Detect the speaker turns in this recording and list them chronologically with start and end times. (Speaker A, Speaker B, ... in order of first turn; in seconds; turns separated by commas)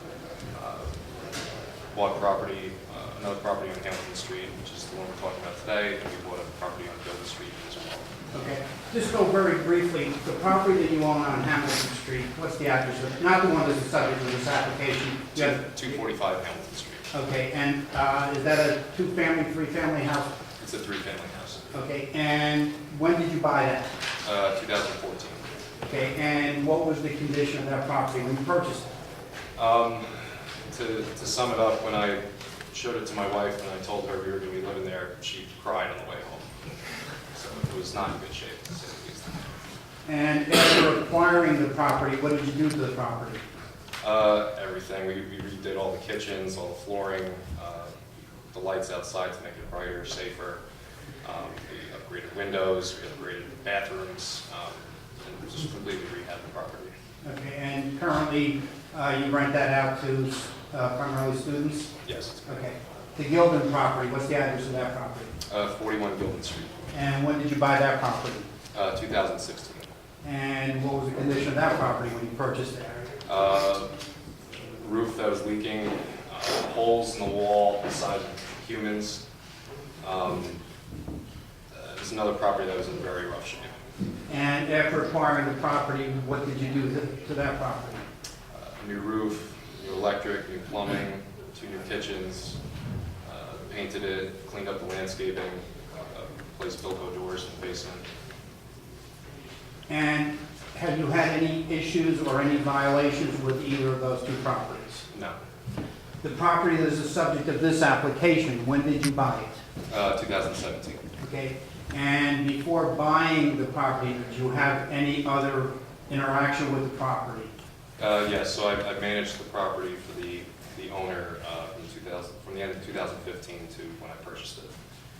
Speaker A: 0.5-0.9, Speaker A: 1.9-8.1, Speaker B: 8.3-16.0, Speaker A: 15.3-17.1, Speaker B: 17.1-20.3, Speaker A: 20.6-21.7, Speaker B: 21.7-23.9, Speaker A: 24.2-25.4, Speaker B: 25.9-28.9, Speaker A: 29.6-32.2, Speaker A: 32.7-36.5, Speaker A: 37.3-39.3, Speaker B: 40.0-43.4, Speaker A: 44.0-48.0, Speaker A: 48.5-50.6, Speaker A: 51.2-56.9, Speaker B: 57.2-61.9, Speaker A: 62.0-62.5, Speaker B: 62.5-65.3, Speaker A: 65.5-66.7, Speaker B: 66.9-68.5, Speaker A: 68.7-69.9, Speaker B: 70.2-73.1, Speaker A: 73.2-73.9, Speaker A: 74.7-79.2, Speaker A: 80.0-80.6, Speaker A: 81.7-83.8, Speaker B: 84.3-88.0, Speaker A: 88.5-92.6, Speaker A: 93.2-98.0, Speaker B: 99.9-105.0, Speaker A: 105.1-105.3, Speaker B: 106.2-109.6, Speaker A: 109.9-111.0, Speaker B: 111.2-117.5, Speaker A: 118.0-124.7